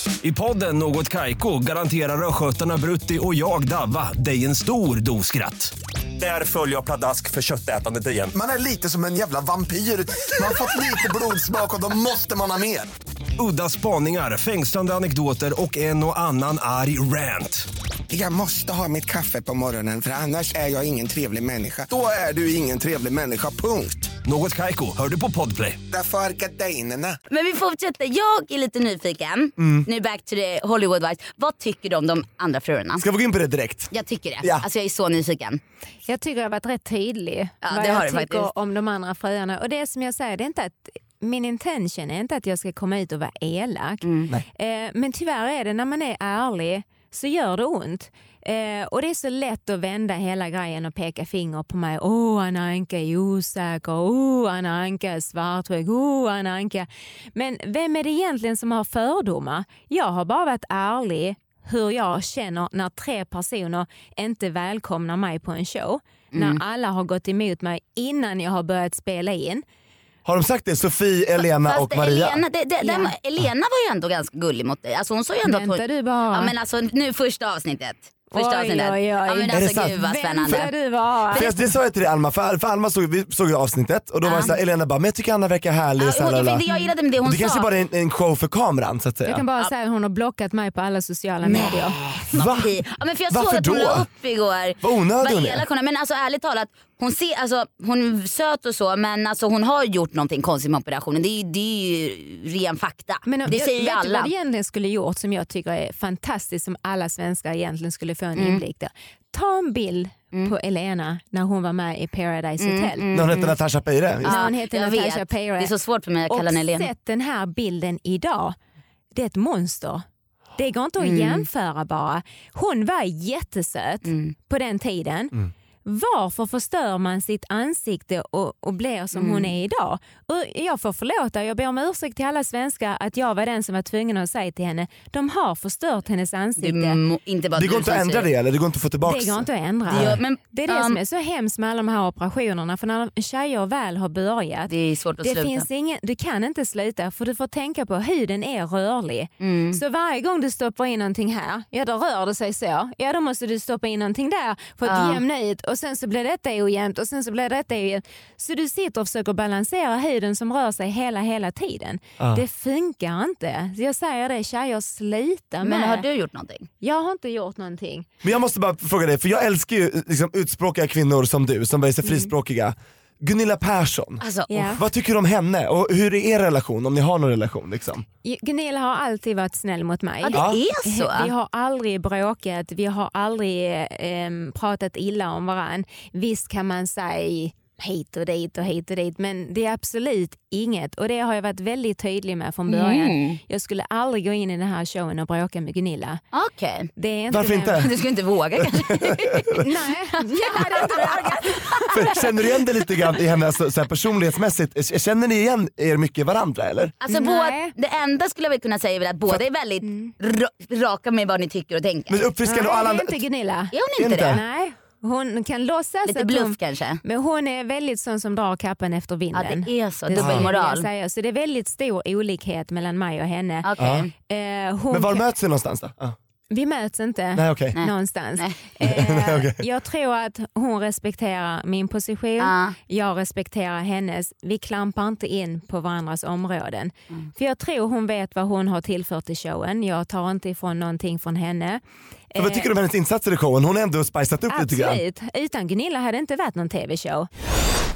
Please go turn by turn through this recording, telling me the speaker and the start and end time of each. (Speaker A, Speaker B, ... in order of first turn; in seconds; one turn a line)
Speaker A: 0.2-8.4
Speaker B: 8.3-12.9
Speaker A: 13.4-17.7
Speaker C: 18.1-24.1
Speaker A: 24.2-25.8
Speaker C: 25.9-27.2
Speaker D: 27.3-33.0
Speaker B: 29.6-29.9
Speaker B: 33.0-33.9
Speaker D: 33.9-35.6
Speaker E: 36.1-69.6
Speaker D: 37.6-38.5
Speaker D: 44.0-44.3
Speaker D: 66.3-66.6
Speaker B: 70.2-72.4
Speaker D: 71.4-80.7
Speaker E: 72.8-73.1
Speaker E: 75.4-76.5
Speaker E: 78.3-81.5
Speaker B: 79.5-80.7
Speaker B: 81.3-86.6
Speaker D: 84.2-84.5
Speaker D: 86.0-87.7
Speaker B: 87.2-89.4
Speaker E: 89.2-92.0
Speaker D: 91.4-104.3
Speaker B: 92.3-92.7
Speaker B: 93.3-94.0
Speaker B: 94.8-95.6
Speaker E: 103.3-113.0
Speaker D: 108.3-108.6
Speaker D: 112.6-113.5
Speaker B: 113.1-114.4
Speaker E: 114.2-115.7
Speaker D: 114.2-116.9
Speaker E: 116.3-118.5
Speaker E: 119.1-120.0
Speaker E: 120.6-137.0
Speaker D: 121.0-121.4
Speaker D: 124.0-124.3
Speaker D: 129.1-129.5
Speaker D: 136.6-138.3
Speaker B: 137.6-140.2
Speaker E: 139.0-166.0
Speaker D: 139.9-141.0
Speaker D: 144.7-145.7
Speaker D: 149.4-149.8
Speaker D: 154.8-155.2
Speaker D: 165.6-166.7
Speaker E: 166.8-168.1
Speaker B: 168.2-178.0
Speaker D: 174.2-174.7
Speaker E: 174.5-174.8
Speaker E: 178.2-196.2
Speaker D: 180.2-181.3
Speaker B: 180.3-180.6
Speaker D: 192.7-193.4
Speaker D: 196.3-196.9
Speaker E: 197.0-197.8
Speaker B: 197.3-197.9
Speaker D: 197.8-202.0
Speaker B: 198.6-199.6
Speaker E: 199.6-202.2
Speaker B: 201.9-206.9
Speaker D: 207.0-212.3
Speaker E: 207.1-207.7
Speaker E: 209.8-210.1
Speaker B: 212.1-213.2
Speaker E: 212.4-213.7
Speaker D: 213.7-214.4
Speaker B: 214.0-214.4
Speaker E: 214.3-223.7
Speaker D: 216.1-217.0
Speaker D: 219.3-220.9
Speaker B: 220.1-220.5
Speaker D: 223.6-224.1
Speaker B: 223.8-224.1
Speaker E: 224.2-225.2
Speaker B: 224.9-226.2
Speaker E: 226.5-241.8
Speaker B: 227.3-227.8
Speaker D: 227.8-228.6
Speaker B: 228.8-229.6
Speaker D: 232.4-232.8
Speaker E: 242.3-242.7
Speaker B: 242.4-245.0
Speaker E: 244.5-247.3